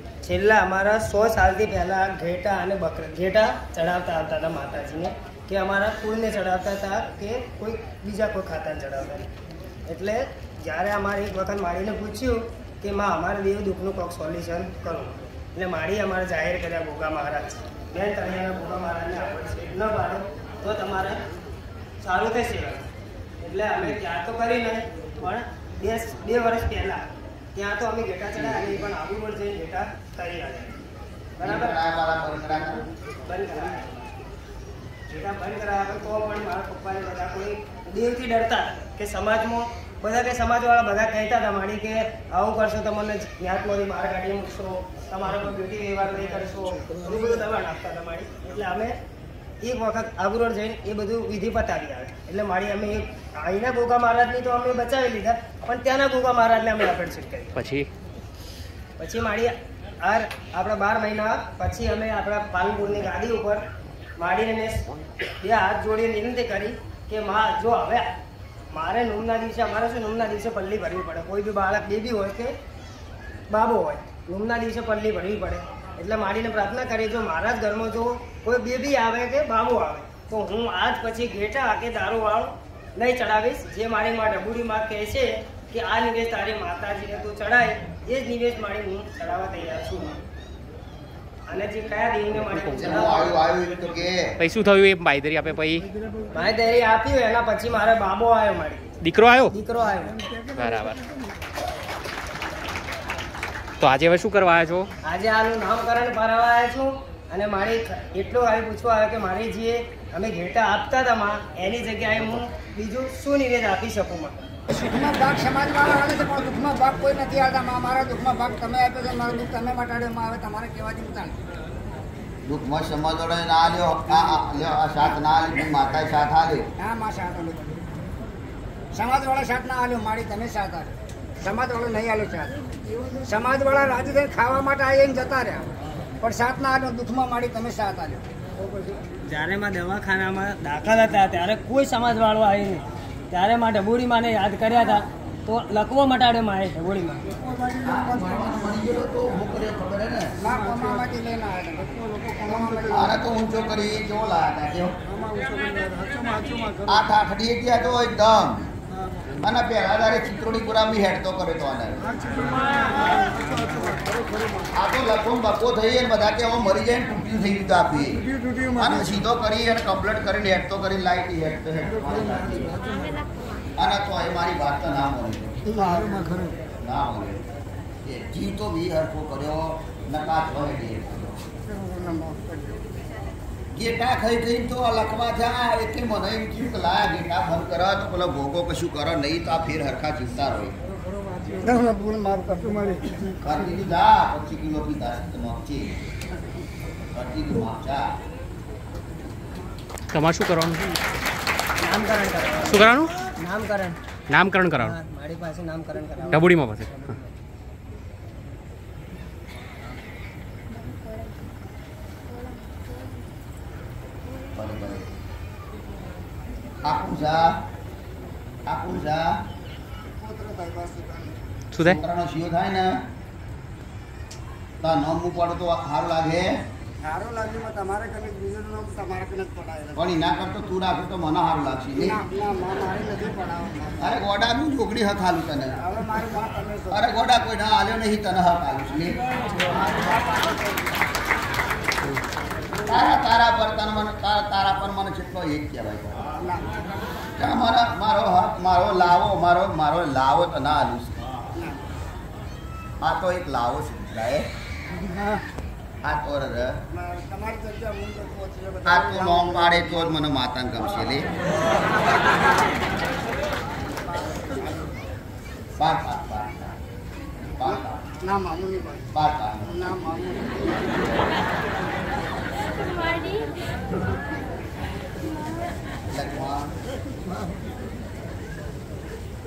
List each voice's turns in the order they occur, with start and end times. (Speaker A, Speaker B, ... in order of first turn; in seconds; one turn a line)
Speaker A: 0.2-9.3
Speaker A: 9.9-21.2
Speaker A: 22.0-22.9
Speaker A: 23.4-27.0
Speaker A: 27.5-30.8
Speaker A: 31.4-31.8
Speaker B: 31.4-32.9
Speaker A: 33.2-34.0
Speaker A: 35.1-48.9
Speaker A: 49.6-57.5
Speaker C: 57.5-57.9
Speaker A: 59.0-63.6
Speaker A: 64.2-64.8
Speaker A: 65.4-68.1
Speaker A: 68.7-72.5
Speaker A: 73.5-90.2
Speaker A: 91.5-93.4
Speaker B: 92.7-94.4
Speaker C: 94.4-95.8
Speaker A: 96.3-99.0
Speaker C: 99.0-99.5
Speaker A: 99.5-100.2
Speaker C: 100.5-101.0
Speaker C: 103.8-104.9
Speaker A: 105.0-114.3
Speaker D: 114.8-121.3
Speaker B: 122.5-126.7
Speaker D: 126.8-127.7
Speaker D: 128.9-132.6
Speaker D: 133.2-138.2
Speaker A: 139.2-147.2
Speaker B: 147.8-150.3
Speaker D: 150.4-153.1
Speaker B: 152.9-154.9
Speaker B: 156.8-158.7
Speaker B: 159.4-162.1
Speaker B: 164.7-172.8
Speaker B: 173.8-176.0
Speaker D: 175.7-176.1
Speaker B: 176.8-177.4
Speaker B: 178.0-181.4
Speaker D: 181.9-182.5
Speaker B: 183.7-190.8
Speaker D: 191.6-193.0
Speaker B: 193.4-196.1
Speaker B: 197.1-198.1
Speaker C: 200.1-200.9
Speaker A: 201.8-203.9
Speaker C: 202.7-203.1
Speaker C: 204.3-204.9
Speaker A: 204.7-207.2
Speaker C: 206.3-206.8
Speaker B: 214.5-215.1
Speaker B: 216.8-217.6
Speaker B: 218.7-219.4
Speaker D: 220.1-221.3
Speaker C: 221.7-222.0
Speaker B: 221.8-223.0
Speaker B: 224.8-226.6
Speaker D: 227.0-230.0
Speaker B: 229.9-232.2
Speaker D: 232.0-234.0
Speaker B: 234.0-235.8
Speaker D: 235.8-237.0
Speaker B: 236.9-239.2
Speaker B: 242.9-246.4
Speaker D: 246.4-246.8
Speaker B: 247.4-251.2
Speaker B: 253.0-254.5
Speaker B: 256.0-256.8
Speaker D: 256.9-259.9
Speaker B: 258.9-261.3
Speaker B: 265.8-266.8
Speaker B: 267.6-268.0
Speaker D: 267.6-269.0
Speaker B: 269.1-269.9
Speaker D: 269.7-270.8
Speaker B: 276.1-276.7